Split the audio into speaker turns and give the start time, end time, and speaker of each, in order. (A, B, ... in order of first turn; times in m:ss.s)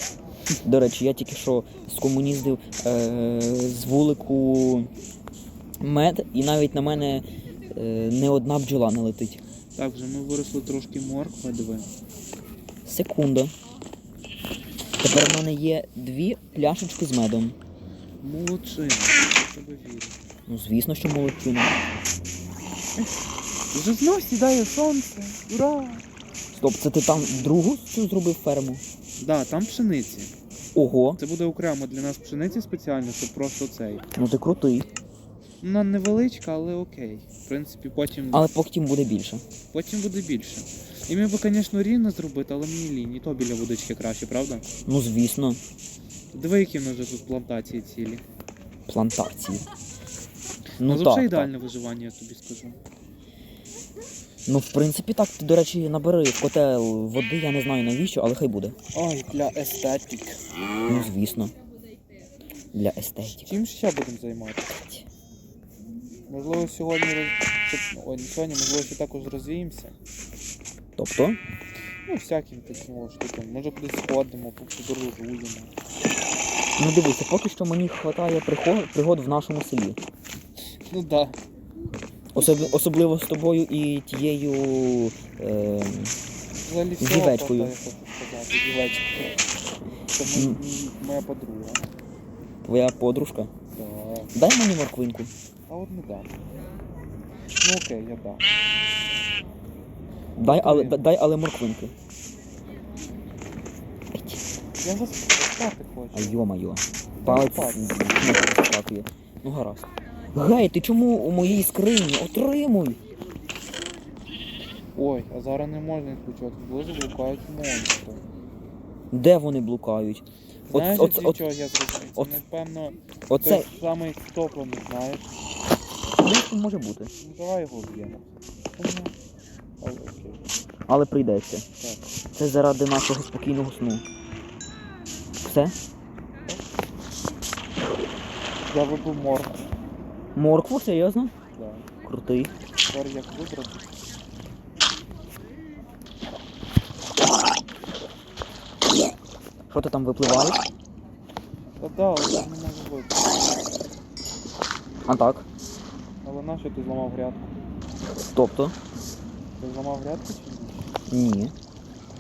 0:00.6-0:04.9 A
0:05.8-0:09.4 A
0:09.8-0:11.9 B
0:12.8-0:13.5 A
0:15.0-0:17.6 A
0:18.2-0:20.2 B
0:20.5-0:21.8 A
0:23.7-0:26.0 B
0:26.5-0:28.8 A
0:29.2-0:30.3 B
0:30.8-0:31.2 A
0:31.2-0:34.0 B
0:34.2-0:34.9 A
0:35.6-0:38.5 B
0:38.3-0:39.4 A
0:39.7-0:44.7 B
0:44.9-0:45.6 A
0:46.3-0:48.2 B
0:48.9-0:49.7 A
0:50.8-0:51.5 A
0:50.8-0:52.8 B
0:54.5-0:58.8 A
0:58.9-1:00.4 B
1:00.9-1:01.5 A
1:02.7-1:03.5 A
1:03.4-1:04.8 B
1:04.8-1:05.1 A
1:06.3-1:10.0 B
1:11.0-1:11.4 A
1:12.1-1:15.7 B
1:16.8-1:20.0 A
1:20.9-1:21.4 B
1:22.3-1:26.2 A
1:22.4-1:22.8 B
1:26.6-1:29.4 B
1:27.0-1:27.8 A
1:30.1-1:31.8 B
1:30.3-1:30.6 A
1:32.6-1:33.5 A
1:33.7-1:34.3 B
1:34.3-1:35.3 A
1:35.7-1:36.3 B
1:37.6-1:38.4 B
1:40.4-1:41.9 A
1:40.4-1:41.0 B
1:44.1-1:44.4 A
1:44.8-1:46.4 B
1:46.1-1:53.0 A
1:47.2-1:48.2 B
1:55.0-1:58.2 B
1:59.1-2:01.4 A
2:00.7-2:05.3 B
2:03.3-2:03.7 A
2:06.2-2:07.1 A
2:07.2-2:09.1 B
2:09.8-2:10.4 B
2:10.9-2:11.6 A
2:11.8-2:12.1 B
2:12.4-2:14.0 A
2:15.4-2:15.8 A
2:18.7-2:19.7 B
2:20.4-2:21.3 A
2:21.5-2:21.9 B
2:22.0-2:22.5 A
2:22.9-2:23.8 B
2:29.7-2:30.6 A
2:31.8-2:33.6 B
2:35.1-2:35.5 A
2:36.2-2:37.6 B
2:38.3-2:38.8 A
2:39.6-2:40.8 B
2:41.1-2:41.5 A